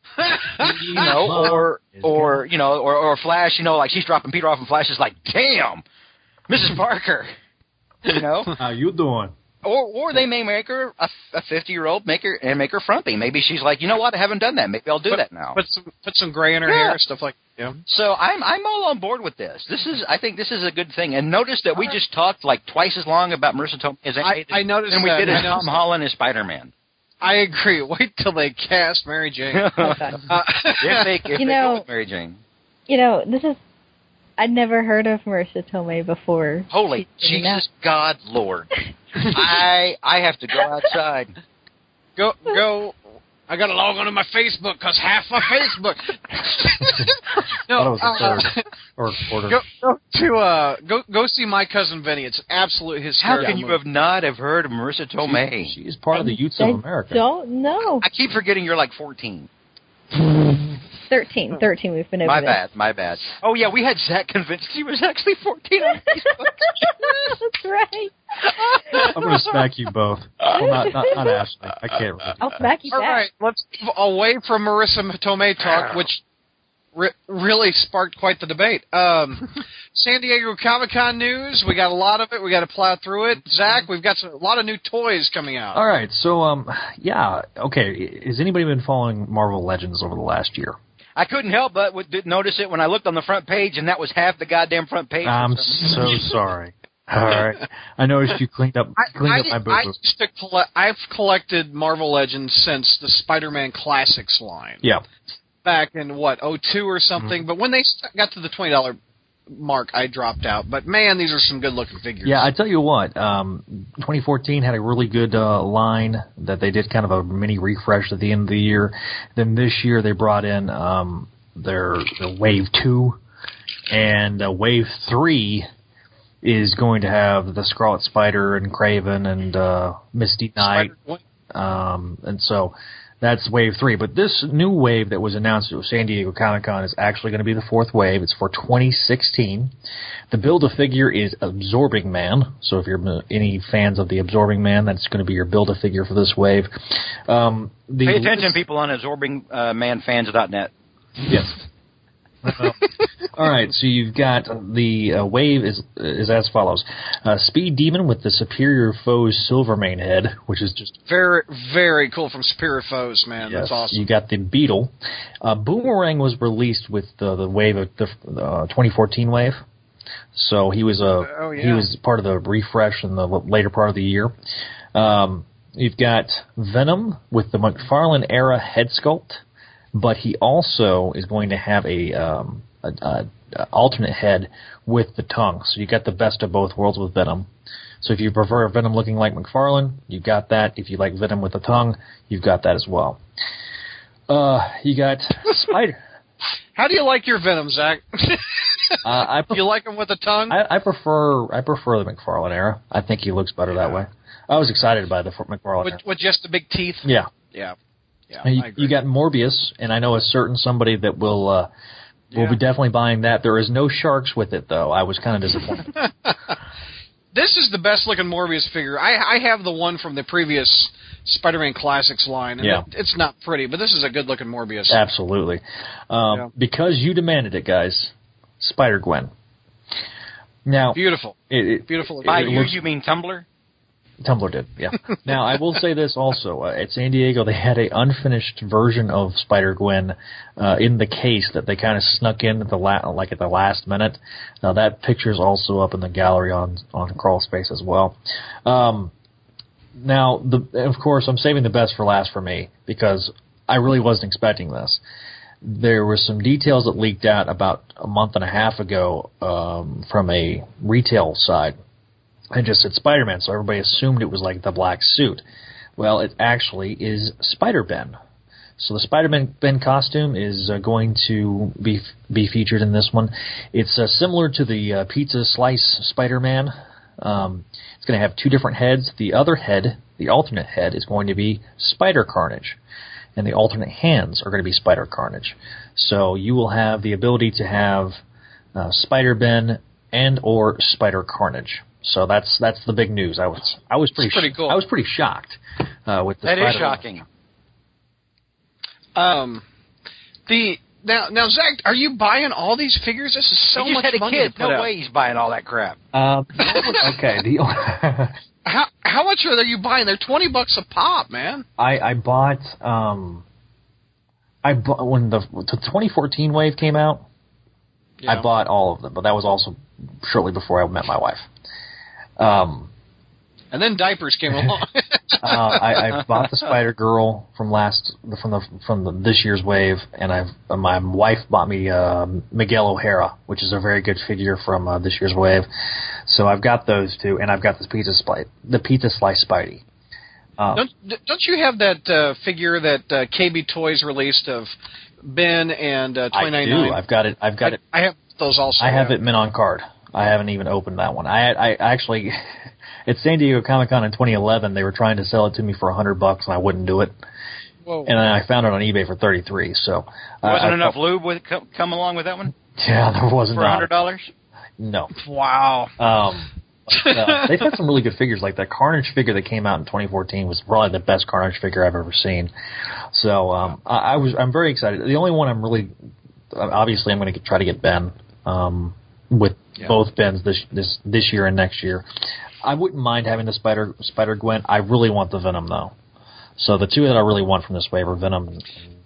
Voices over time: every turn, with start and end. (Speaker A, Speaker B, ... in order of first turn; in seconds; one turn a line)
Speaker A: 0.2-0.8
Speaker B: 0.6-2.5
Speaker C: 0.9-5.8
Speaker C: 6.5-7.3
Speaker C: 8.1-8.6
Speaker B: 8.6-9.3
Speaker C: 9.6-15.6
Speaker A: 15.1-17.8
Speaker C: 16.7-17.0
Speaker C: 17.9-26.7
Speaker A: 24.2-25.8
Speaker A: 27.2-29.7
Speaker C: 29.5-32.4
Speaker D: 29.8-30.3
Speaker A: 30.3-31.4
Speaker D: 31.4-31.9
Speaker D: 32.9-33.6
Speaker D: 34.4-37.6
Speaker C: 36.7-38.7
Speaker C: 39.2-41.3
Speaker A: 42.2-48.7
Speaker B: 47.7-49.6
Speaker A: 49.5-53.8
Speaker C: 53.2-55.7
Speaker B: 55.2-57.2
Speaker D: 56.1-58.1
Speaker C: 58.0-59.5
Speaker D: 61.1-62.6
Speaker C: 62.2-67.4
Speaker D: 65.9-69.1
Speaker B: 69.0-72.7
Speaker D: 70.6-71.4
Speaker D: 72.4-73.3
Speaker A: 72.9-76.2
Speaker A: 77.0-85.8
Speaker B: 85.7-90.8
Speaker C: 91.2-96.1
Speaker B: 95.2-99.9
Speaker A: 99.0-104.8
Speaker A: 105.7-109.0
Speaker A: 109.5-112.5
Speaker B: 112.2-123.2
Speaker B: 123.9-125.7
Speaker B: 126.4-130.9
Speaker A: 130.6-131.2
Speaker B: 131.5-139.7
Speaker B: 140.3-148.6
Speaker C: 148.1-150.7
Speaker B: 151.3-151.6
Speaker B: 152.4-152.8
Speaker B: 153.3-160.9
Speaker A: 161.1-164.0
Speaker B: 163.4-169.6
Speaker B: 170.3-174.3
Speaker A: 171.2-171.9
Speaker B: 174.9-179.4
Speaker B: 179.9-187.5
Speaker B: 188.0-193.2
Speaker B: 194.3-196.0
Speaker A: 196.8-200.6
Speaker B: 199.0-199.7
Speaker B: 200.5-206.0
Speaker A: 205.8-207.8
Speaker B: 207.0-207.3
Speaker A: 208.3-208.9
Speaker B: 208.4-211.7
Speaker A: 212.3-212.6
Speaker B: 212.3-215.9
Speaker A: 215.9-216.5
Speaker A: 217.3-225.0
Speaker B: 224.9-229.3
Speaker B: 230.7-232.8
Speaker A: 230.9-231.4
Speaker A: 231.9-232.7
Speaker C: 232.3-233.5
Speaker B: 234.2-249.1
Speaker B: 249.9-255.0
Speaker B: 255.6-261.8
Speaker B: 262.5-265.4
Speaker B: 266.0-268.2
Speaker B: 268.8-282.8
Speaker B: 283.4-288.2
Speaker B: 288.8-297.0
Speaker A: 294.1-294.8
Speaker C: 296.4-297.2
Speaker A: 299.2-299.6
Speaker A: 300.5-304.9
Speaker C: 303.8-306.0
Speaker B: 306.1-308.4
Speaker A: 306.6-307.1
Speaker A: 308.7-311.6
Speaker B: 311.8-313.4
Speaker B: 314.6-317.2
Speaker B: 318.3-321.5
Speaker B: 322.4-322.9
Speaker A: 323.7-325.9
Speaker B: 325.4-335.7
Speaker B: 336.3-339.8
Speaker B: 340.6-340.9
Speaker A: 340.7-344.7
Speaker A: 345.2-347.0
Speaker B: 346.3-347.8
Speaker A: 347.6-349.2
Speaker B: 348.8-352.4
Speaker B: 353.1-357.2
Speaker A: 357.9-358.1
Speaker B: 358.1-361.0
Speaker C: 360.4-362.6
Speaker B: 362.7-363.9
Speaker C: 363.5-364.3
Speaker B: 364.8-365.1
Speaker A: 365.1-365.9
Speaker B: 366.0-372.5
Speaker A: 366.9-367.7
Speaker B: 373.1-375.9
Speaker B: 376.5-382.1
Speaker B: 382.6-385.9
Speaker B: 386.6-388.7